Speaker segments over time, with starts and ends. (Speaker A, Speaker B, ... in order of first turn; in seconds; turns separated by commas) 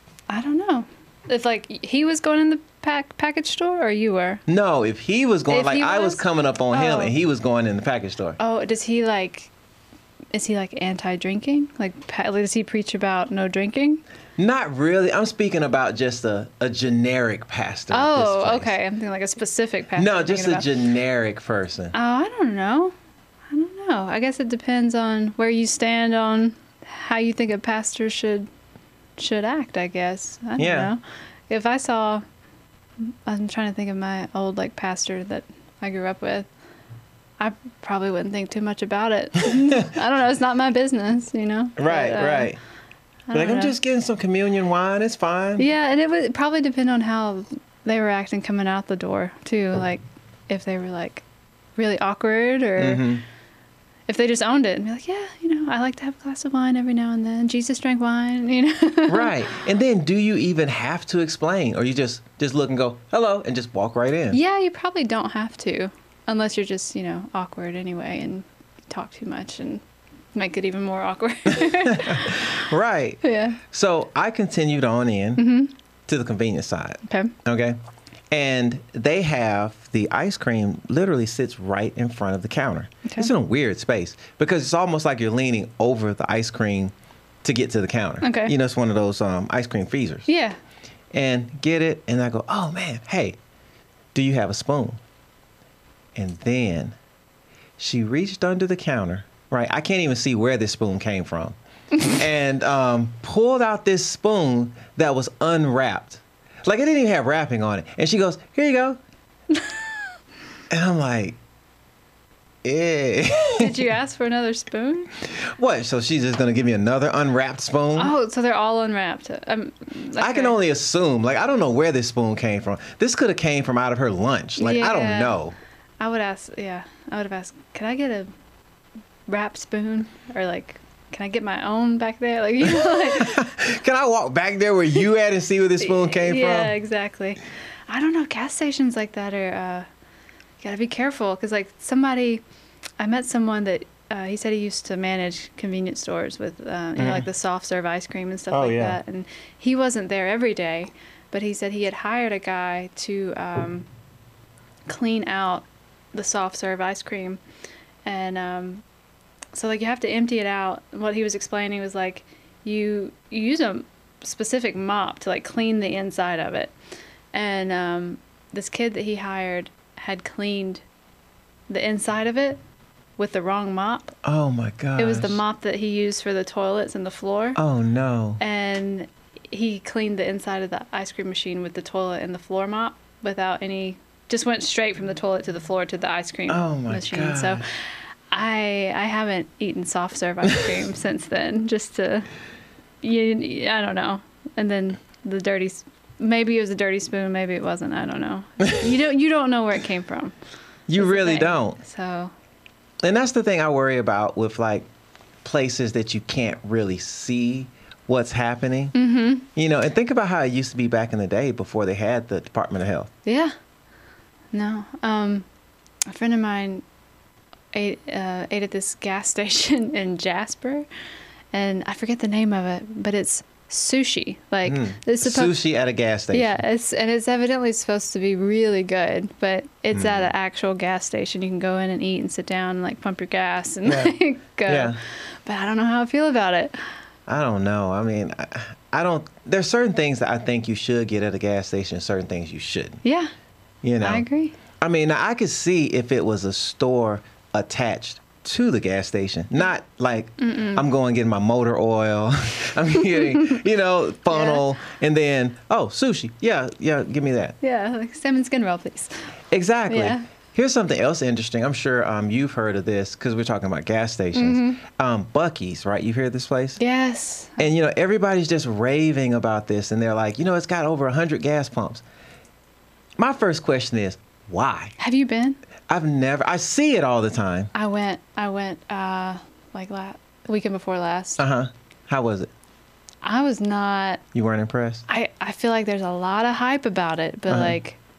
Speaker A: 0.3-4.4, Speaker B: 4.5-8.4, Speaker A: 5.5-7.2, Speaker A: 8.4-9.5, Speaker A: 10.3-14.0, Speaker B: 14.4-18.7, Speaker A: 17.9-20.7, Speaker B: 19.9-21.9, Speaker A: 21.9-22.9, Speaker A: 23.5-28.5, Speaker A: 29.2-32.2, Speaker B: 30.6-30.9, Speaker A: 33.0-36.5, Speaker A: 37.4-42.5, Speaker B: 41.8-42.6, Speaker A: 43.3-43.8, Speaker B: 43.3-45.7, Speaker A: 45.6-51.2, Speaker A: 51.8-53.0, Speaker B: 52.8-53.2, Speaker A: 54.1-59.4, Speaker B: 59.0-64.4, Speaker A: 64.3-69.8, Speaker A: 70.3-72.6, Speaker B: 71.6-75.5, Speaker A: 73.2-73.6, Speaker A: 75.4-75.7, Speaker B: 76.1-77.8, Speaker A: 77.0-77.3, Speaker B: 78.3-86.9, Speaker A: 83.0-83.3, Speaker B: 87.4-90.3, Speaker A: 88.2-88.5, Speaker A: 90.3-90.6, Speaker B: 91.1-93.3, Speaker B: 94.1-95.0, Speaker B: 96.2-96.9, Speaker B: 97.8-109.0, Speaker B: 110.7-111.4, Speaker B: 112.6-113.8, Speaker A: 113.4-115.1, Speaker B: 115.4-118.1, Speaker A: 118.0-120.6, Speaker B: 120.2-125.5, Speaker A: 124.6-125.4, Speaker A: 126.0-128.3, Speaker A: 129.3-133.5, Speaker B: 132.7-136.7, Speaker A: 135.8-139.9, Speaker A: 140.6-142.4, Speaker A: 143.0-153.9, Speaker B: 147.0-147.2, Speaker B: 148.5-149.0, Speaker A: 154.9-157.4, Speaker A: 158.0-158.8, Speaker A: 159.5-166.7, Speaker A: 167.3-170.8, Speaker A: 171.7-172.6, Speaker A: 173.2-174.2, Speaker B: 174.2-175.4, Speaker A: 175.0-177.6, Speaker B: 177.6-178.4, Speaker A: 178.4-187.6, Speaker B: 186.5-187.6, Speaker A: 188.3-192.3, Speaker A: 193.0-200.3, Speaker B: 200.9-201.8, Speaker A: 200.9-202.3, Speaker B: 203.0-204.8, Speaker B: 205.4-208.9, Speaker A: 208.9-209.5, Speaker B: 209.5-213.1, Speaker A: 213.2-213.5, Speaker A: 214.5-215.4, Speaker A: 216.1-216.8, Speaker A: 217.7-220.9, Speaker A: 221.5-225.7, Speaker B: 224.6-226.6, Speaker A: 226.3-234.9, Speaker B: 229.9-230.3, Speaker B: 233.8-234.1, Speaker B: 234.6-235.0, Speaker A: 235.4-236.9, Speaker B: 237.3-243.0, Speaker A: 243.0-243.3, Speaker B: 243.8-244.2, Speaker A: 244.0-244.5, Speaker B: 244.8-257.5, Speaker A: 250.4-250.8, Speaker A: 254.3-254.6, Speaker A: 257.6-259.1, Speaker B: 259.5-266.8, Speaker A: 259.9-260.2, Speaker A: 264.3-264.8, Speaker A: 266.8-267.6, Speaker B: 267.6-272.0, Speaker B: 273.2-274.9, Speaker A: 275.0-275.6, Speaker B: 275.9-277.7, Speaker A: 277.7-281.4, Speaker B: 281.4-282.5, Speaker A: 283.2-284.2, Speaker B: 284.3-285.0, Speaker A: 285.1-288.0, Speaker B: 287.5-287.7